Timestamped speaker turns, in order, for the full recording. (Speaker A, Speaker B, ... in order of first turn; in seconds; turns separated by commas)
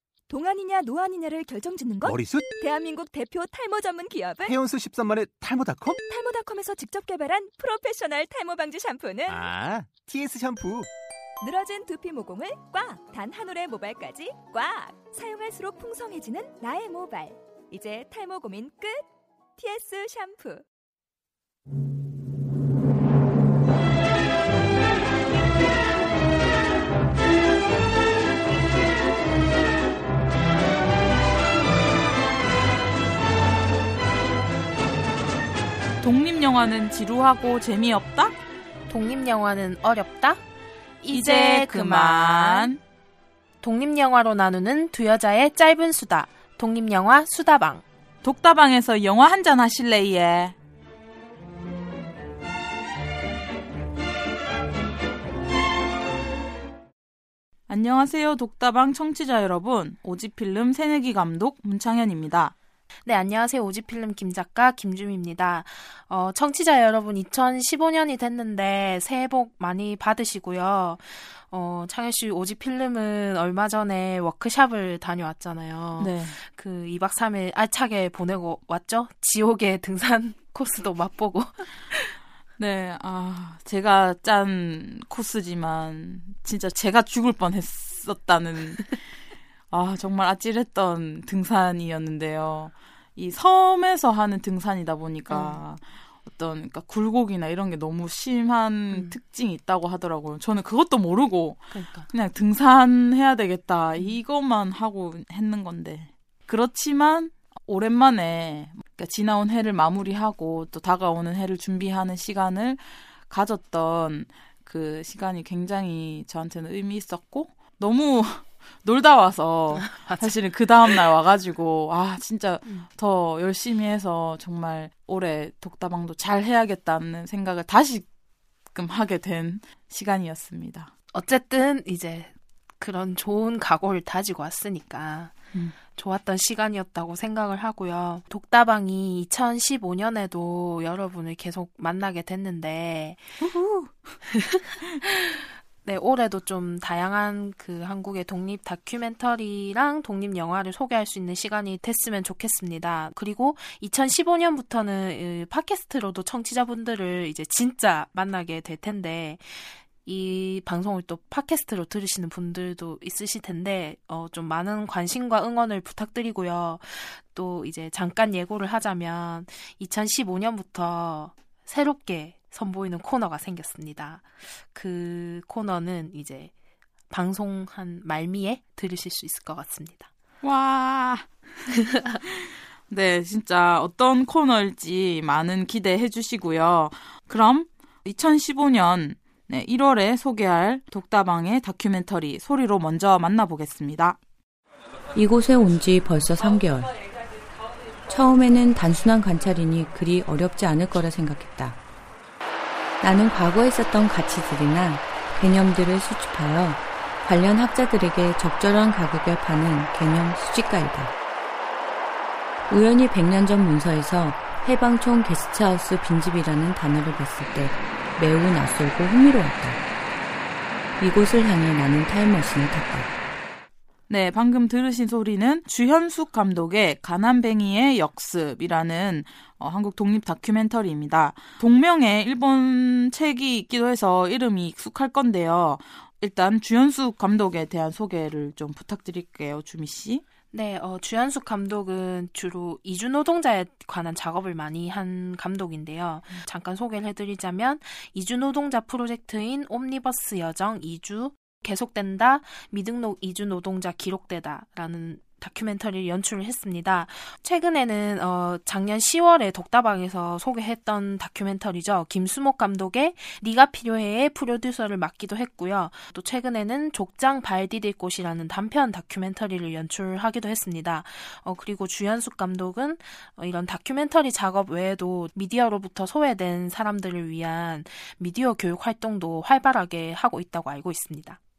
Speaker A: 0.3-4.5, Speaker B: 2.0-2.5, Speaker B: 4.4-6.0, Speaker A: 5.9-9.4, Speaker B: 9.3-10.9, Speaker A: 11.4-20.6, Speaker C: 36.0-38.3, Speaker D: 38.9-40.4, Speaker D: 41.0-42.7, Speaker C: 41.1-42.8, Speaker D: 43.6-47.8, Speaker C: 48.2-50.5, Speaker C: 57.7-62.5, Speaker D: 63.0-82.1, Speaker C: 76.0-76.4, Speaker C: 82.6-89.0, Speaker C: 89.7-128.1, Speaker D: 95.3-95.6, Speaker D: 101.7-102.1, Speaker D: 119.7-120.9, Speaker C: 128.7-130.9, Speaker D: 131.1-135.3, Speaker D: 135.9-143.2, Speaker C: 143.4-144.1, Speaker D: 144.3-176.5, Speaker D: 177.1-180.1, Speaker C: 180.4-181.3, Speaker D: 181.9-182.2, Speaker C: 182.2-194.2, Speaker E: 195.1-197.0, Speaker E: 198.1-201.8, Speaker E: 203.0-211.1, Speaker E: 212.7-219.8, Speaker E: 221.0-223.1, Speaker C: 224.1-240.2, Speaker D: 240.5-281.4